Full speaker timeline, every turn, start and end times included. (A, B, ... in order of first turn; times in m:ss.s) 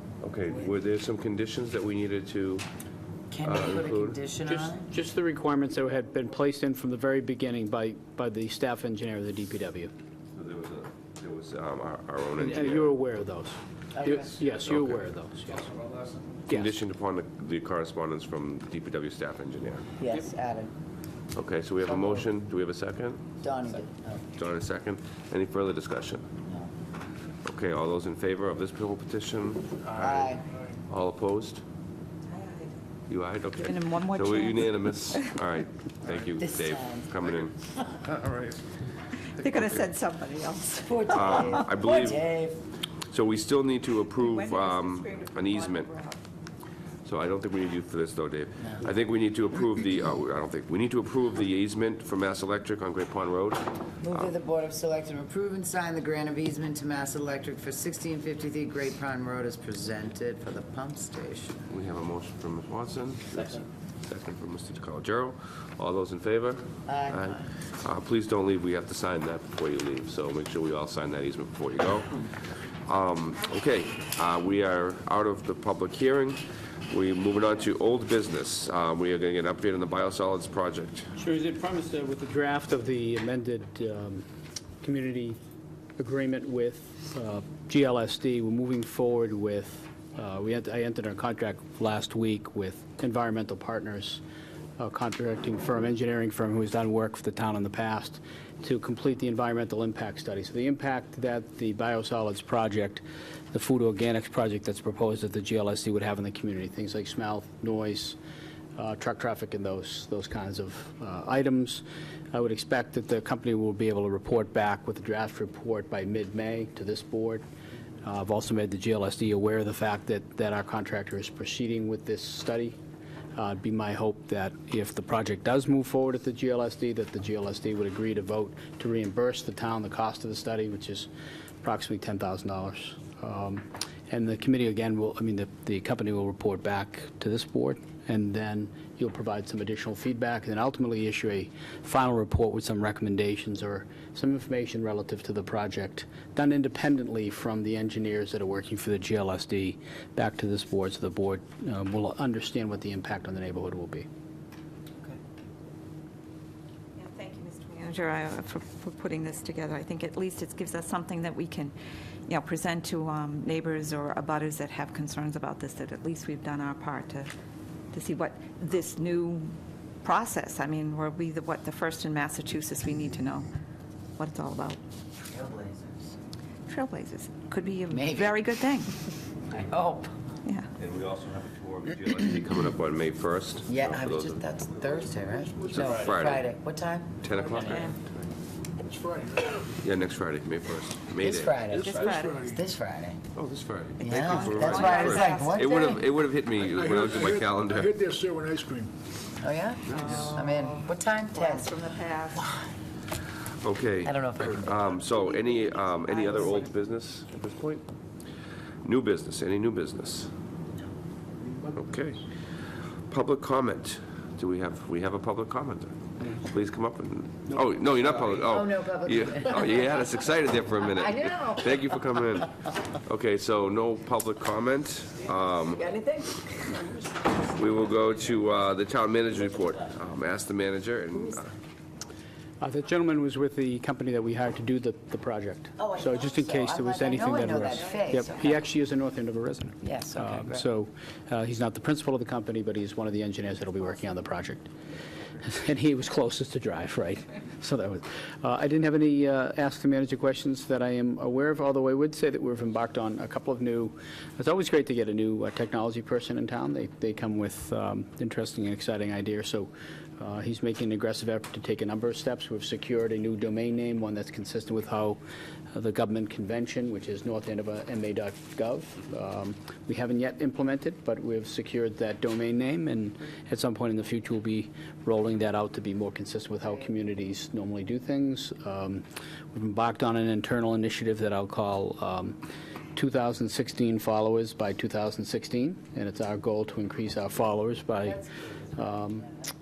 0:00.2-0:02.7 A
0:03.3-0:04.9 B
0:03.4-0:04.2 A
0:04.5-0:09.9 C
0:10.3-0:12.9 A
0:12.4-0:15.8 C
0:14.0-0:14.4 B
0:14.7-0:15.0 A
0:16.5-0:19.9 A
0:20.0-0:20.7 B
0:21.4-0:23.2 A
0:21.8-0:22.2 B
0:23.4-0:24.2 B
0:24.4-0:26.3 A
0:26.5-0:26.7 B
0:27.4-0:30.1 A
0:29.9-0:30.4 B
0:30.9-0:31.6 A
0:32.3-0:32.7 D
0:33.1-0:37.5 A
0:33.6-0:35.3 D
0:36.4-0:38.2 B
0:39.3-0:41.6 D
0:40.8-0:42.6 B
0:41.1-0:42.2 A
0:43.1-0:45.9 A
0:44.2-0:46.2 D
0:47.0-0:54.3 A
0:54.0-1:01.6 B
1:01.7-1:12.3 A
1:06.9-1:07.5 B
1:12.9-1:21.1 A
1:21.2-1:24.3 C
1:24.8-1:25.4 C
1:26.0-1:34.2 C
1:34.8-1:48.2 C
1:48.8-1:57.4 C
1:58.0-2:02.8 C
2:03.4-2:11.1 C
2:11.6-2:34.1 C
2:37.0-2:41.8 D
2:42.3-2:47.3 D
2:47.9-2:53.5 D
2:54.2-2:54.8 D
2:55.3-2:56.1 B
2:56.7-2:58.9 D
2:57.9-2:58.4 B
2:59.5-3:00.1 B
3:00.8-3:04.4 A
3:03.7-3:07.8 B
3:04.8-3:05.9 E
3:05.7-3:06.4 A
3:07.2-3:08.3 A
3:07.4-3:07.6 E
3:07.6-3:08.0 D
3:08.8-3:09.6 E
3:09.8-3:11.6 A
3:11.2-3:13.2 B
3:11.7-3:12.6 E
3:11.7-3:12.4 D
3:13.4-3:17.9 A
3:14.0-3:16.1 B
3:14.0-3:16.0 D
3:16.6-3:18.9 E
3:19.4-3:21.8 B
3:19.9-3:22.5 D
3:19.9-3:20.2 A
3:23.6-3:27.9 A
3:24.0-3:25.2 B
3:26.1-3:26.6 D
3:28.8-3:30.3 A
3:31.8-3:32.2 A
3:33.1-3:45.9 A
3:38.2-3:40.2 B
3:40.8-3:41.9 B
3:47.4-3:51.5 A
3:52.6-4:04.7 C
3:55.8-3:58.6 B
3:59.8-4:00.7 B
4:05.4-4:25.2 C
4:25.7-4:42.4 C
4:43.0-4:49.3 C
4:48.2-4:48.5 B